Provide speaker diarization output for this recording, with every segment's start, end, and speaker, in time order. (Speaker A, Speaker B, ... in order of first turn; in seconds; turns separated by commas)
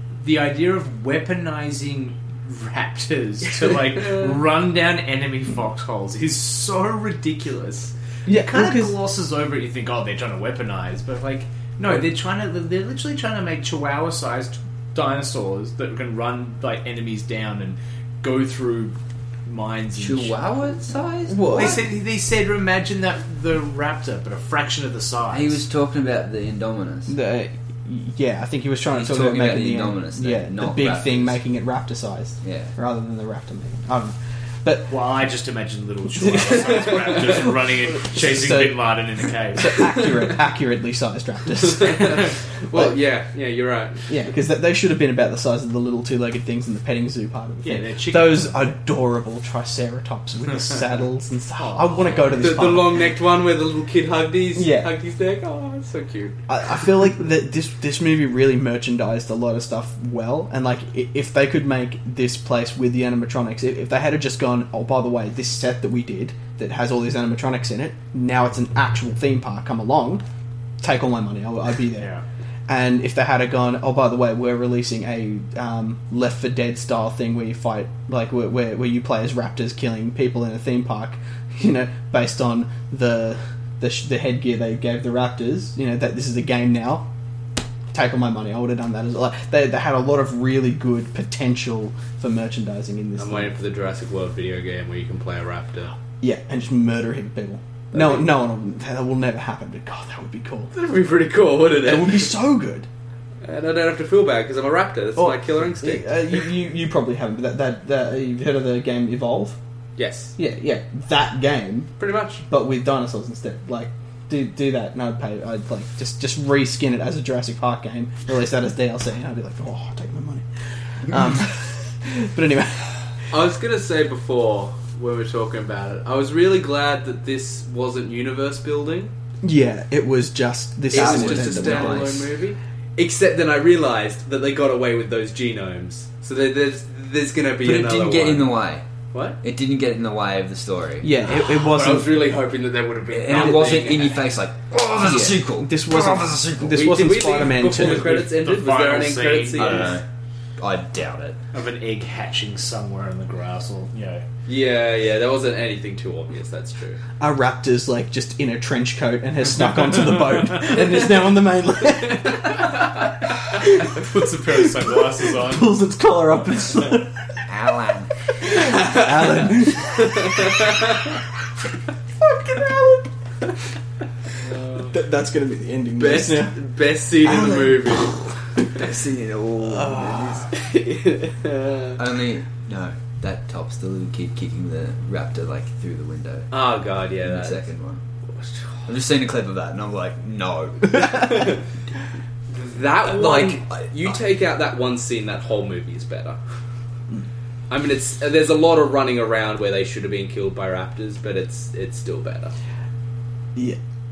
Speaker A: 0.1-20.5, Speaker B: 3.9-4.4, Speaker C: 8.2-8.9, Speaker D: 19.9-21.7, Speaker C: 21.3-21.8, Speaker A: 21.4-25.6, Speaker D: 25.3-27.1, Speaker C: 27.1-34.9, Speaker D: 28.9-31.4, Speaker D: 32.4-32.7, Speaker A: 34.9-39.8, Speaker C: 36.2-36.7, Speaker B: 36.7-37.2, Speaker C: 38.0-39.0, Speaker C: 39.5-42.9, Speaker B: 41.7-44.1, Speaker C: 44.1-53.0, Speaker A: 47.6-48.7, Speaker A: 51.5-52.6, Speaker B: 52.3-56.4, Speaker C: 54.5-54.9, Speaker C: 56.5-70.2, Speaker C: 70.8-72.1, Speaker A: 72.0-72.2, Speaker C: 72.7-87.1, Speaker C: 87.9-93.5, Speaker B: 93.2-95.9, Speaker C: 96.2-100.7, Speaker B: 97.9-98.3, Speaker B: 100.7-102.3, Speaker C: 101.8-102.9, Speaker B: 103.4-106.4, Speaker C: 105.2-109.6, Speaker B: 110.0-110.3, Speaker C: 110.4-111.9, Speaker B: 112.0-112.4, Speaker C: 112.5-120.5, Speaker C: 121.0-122.9, Speaker B: 123.3-129.1, Speaker C: 129.4-132.1, Speaker D: 130.9-132.3, Speaker B: 130.9-138.6, Speaker D: 137.6-138.8, Speaker B: 139.1-139.4, Speaker D: 139.4-141.1, Speaker C: 141.0-142.2, Speaker B: 141.3-144.3, Speaker D: 143.1-146.8, Speaker C: 143.3-143.7, Speaker C: 145.0-148.3, Speaker B: 146.7-150.0, Speaker A: 147.7-150.0, Speaker D: 149.6-150.0, Speaker D: 150.6-151.4, Speaker A: 151.5-154.2, Speaker B: 154.5-157.0, Speaker C: 157.2-164.0, Speaker A: 163.9-165.7, Speaker C: 164.6-167.4, Speaker D: 167.5-168.1, Speaker C: 168.4-170.8, Speaker B: 168.6-171.1, Speaker C: 172.2-173.1, Speaker C: 174.8-176.5, Speaker B: 176.0-178.3, Speaker C: 177.2-178.8, Speaker D: 178.7-180.5, Speaker C: 179.6-180.5, Speaker B: 180.5-182.0, Speaker D: 182.0-186.5, Speaker B: 186.5-187.6, Speaker D: 187.2-188.0, Speaker D: 188.8-191.6, Speaker B: 191.1-191.6, Speaker B: 192.5-196.4, Speaker D: 193.0-194.2, Speaker B: 197.7-202.5